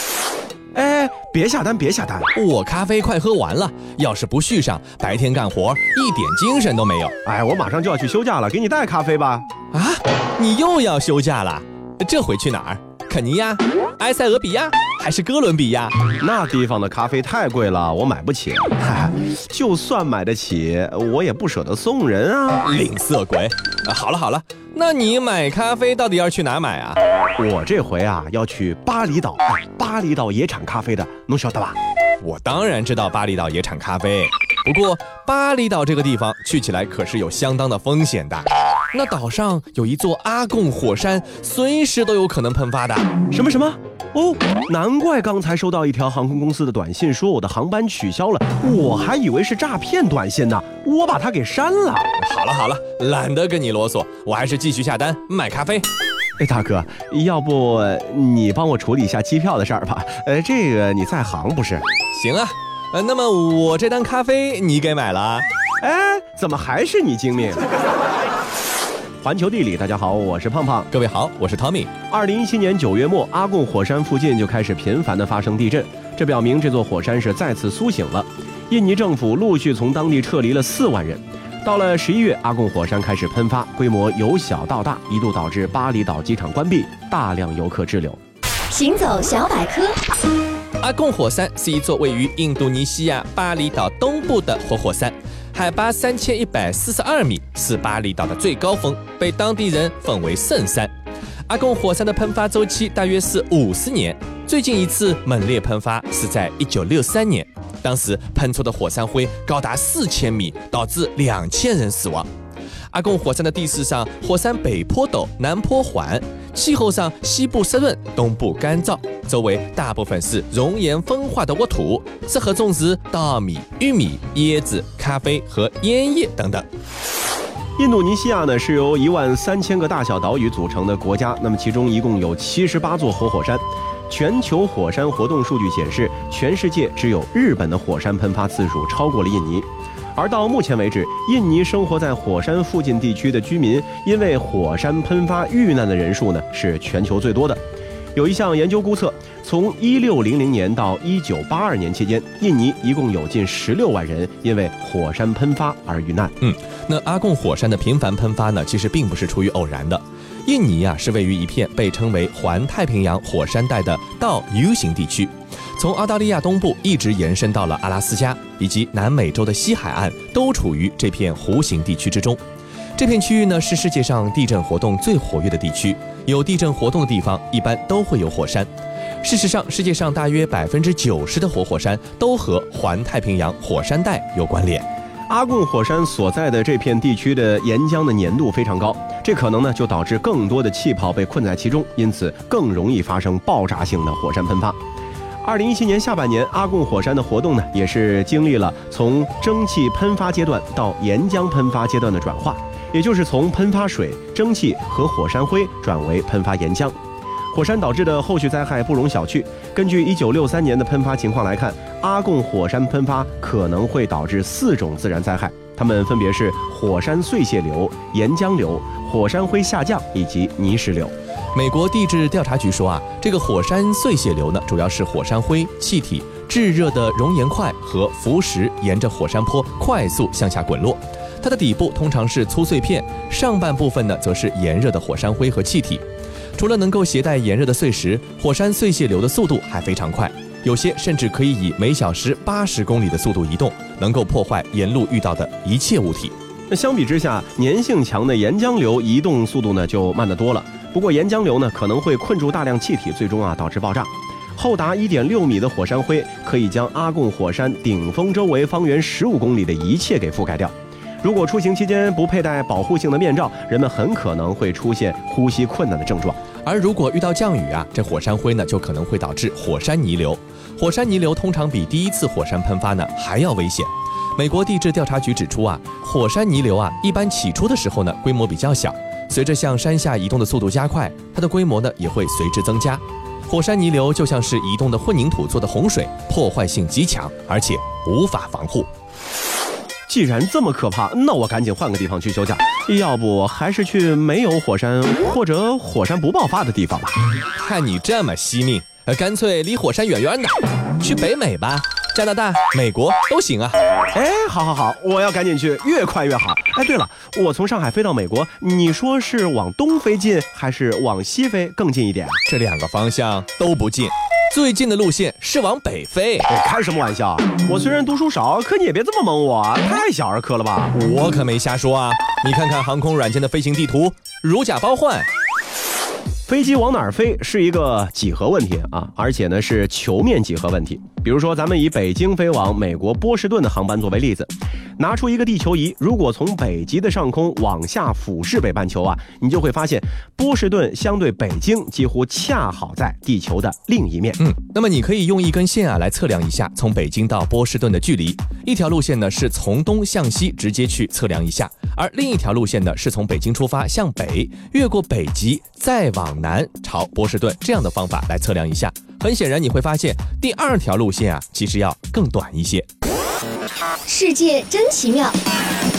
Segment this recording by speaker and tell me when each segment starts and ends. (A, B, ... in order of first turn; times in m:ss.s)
0:00.7-0:02.3 A
0:02.3-0:07.1 B
0:07.2-0:09.5 A
0:09.7-0:16.0 B
0:16.2-0:22.6 A
0:22.6-0:27.0 B
0:27.4-0:31.8 A
0:32.2-0:43.1 B
0:43.3-0:52.1 A
0:52.2-0:55.9 B
0:56.4-1:01.8 A
1:02.1-1:05.4 B
1:05.8-1:07.8 A
1:09.2-1:10.9 A
1:10.9-1:11.9 B
1:12.1-1:28.2 A
1:28.7-1:30.0 C
1:30.8-1:40.9 B
1:41.5-1:52.3 B
1:52.9-2:06.6 B
2:07.8-2:27.6 A
2:28.1-2:36.3 A
2:36.4-2:52.4 B
2:53.0-2:58.7 B
2:59.2-3:04.8 B
3:05.3-3:14.8 A
3:15.4-3:27.0 A
3:27.5-3:41.1 A
3:41.5-3:56.0 B
3:56.6-4:06.3 B
4:06.7-4:26.4 A
4:26.6-4:48.9 B
4:50.1-4:57.2 A
4:57.6-5:03.8 B
5:04.1-5:12.4 A
5:12.4-5:16.5 B
5:16.5-5:20.9 A
5:20.9-5:25.3 B
5:26.4-5:44.4 A
5:44.4-6:02.8 B
6:04.1-6:05.4 C